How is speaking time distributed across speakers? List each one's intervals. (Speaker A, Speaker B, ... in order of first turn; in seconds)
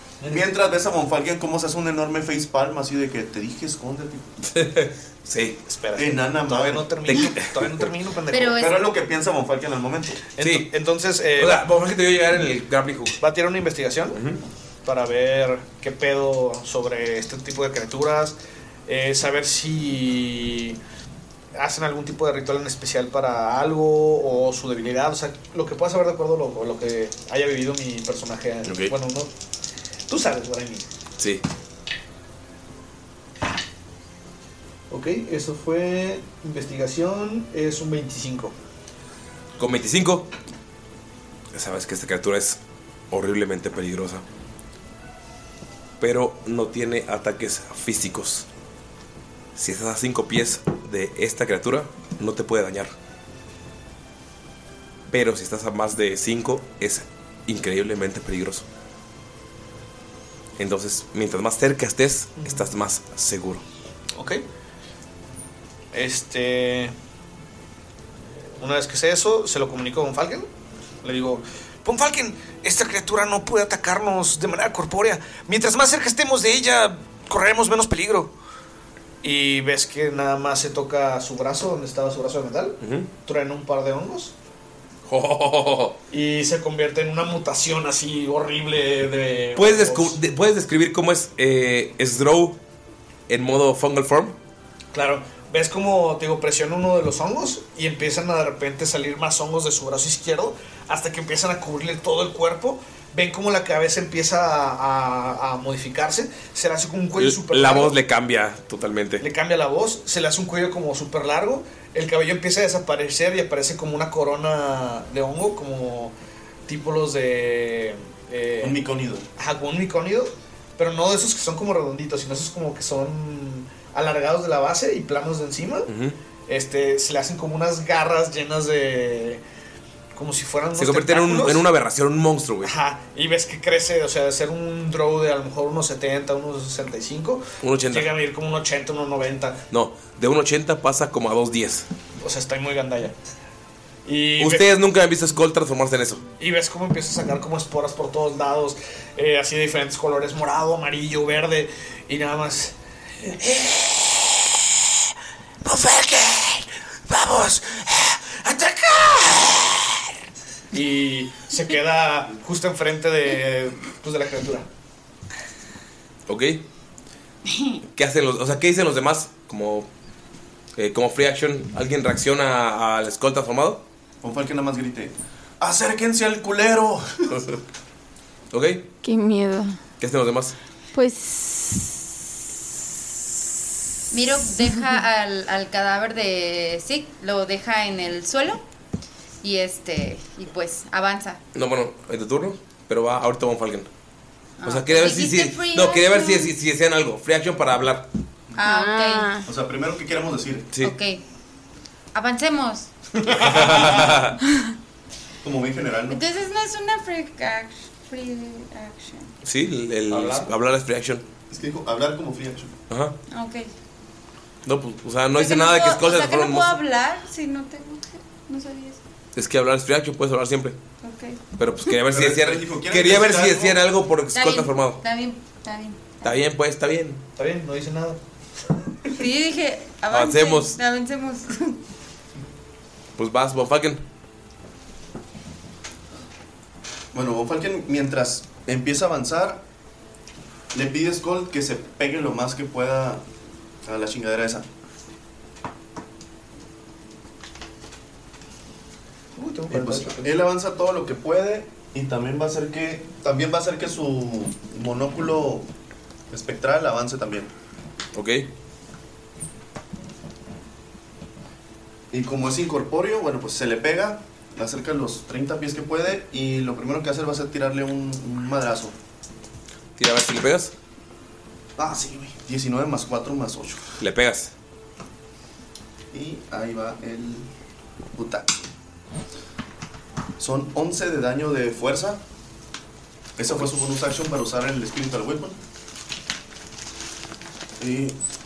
Speaker A: 0.2-0.5, 5.7-8.7, 10.4-11.7, 13.2-14.2, 14.8-18.4, 18.9-20.8, 21.5-29.3, 30.1-30.9, 34.9-38.5, 62.4-62.7, 64.2-64.4, 65.9-66.9, 68.6-70.5, 71.0-78.3, 79.2-84.3, 86.1-90.2, 94.9-108.0, 109.2-116.1, 116.7-118.8, 119.4-125.9, 126.5-129.4, 130.2-131.7, 132.6-139.6, 142.2-143.2, 144.1-144.7, 146.4-155.1, 155.6-160.2, 160.7-164.7, 210.1-210.5, 227.4-228.2, 249.4-250.3
Speaker B: 0.3-4.3, 6.0-7.2, 8.6-10.2, 118.6-119.3, 174.2-177.4, 199.4-200.7, 205.4-206.2, 211.5-212.7, 222.1-223.8, 237.1-239.6, 240.7-243.2, 243.9-244.7, 249.7-255.7, 256.3-257.5, 262.1-269.0, 271.8-273.8, 276.1-277.5, 278.1-278.5, 280.4-282.2, 283.4-285.6, 287.8-288.2
Speaker C: 4.5-5.6, 7.1-7.9, 10.4-10.7, 11.4-13.2, 14.1-14.4, 28.6-28.9, 39.6-40.3, 41.5-42.6, 43.1-44.2, 46.0-48.5, 49.6-52.9, 55.1-58.6, 60.6-63.6, 82.8-83.1, 85.1-86.0, 89.6-92.6, 93.3-94.4, 107.2-109.2, 125.9-126.2, 130.8-132.7, 137.6-138.1, 139.7-141.9, 144.4-146.2, 166.3-166.7, 167.9-169.9, 170.8-173.8, 178.5-178.9, 180.0-180.6, 191.6-193.9, 194.7-198.1, 203.3-204.4, 209.4-211.2, 212.9-213.2, 214.7-216.8, 219.4-220.8, 221.6-225.0, 226.2-227.2, 230.1-230.8, 233.2-234.0, 258.1-258.5, 270.0-270.7, 274.0-274.5
Speaker D: 8.3-8.7, 184.1-188.6, 189.4-191.4, 194.6-196.5, 198.6-199.4, 200.8-201.2, 202.1-202.9, 206.1-209.3, 213.3-213.7, 215.3-219.0, 221.0-221.4, 224.3-226.4, 229.2-231.8
Speaker E: 179.0-179.8, 180.9-182.0, 198.6-199.4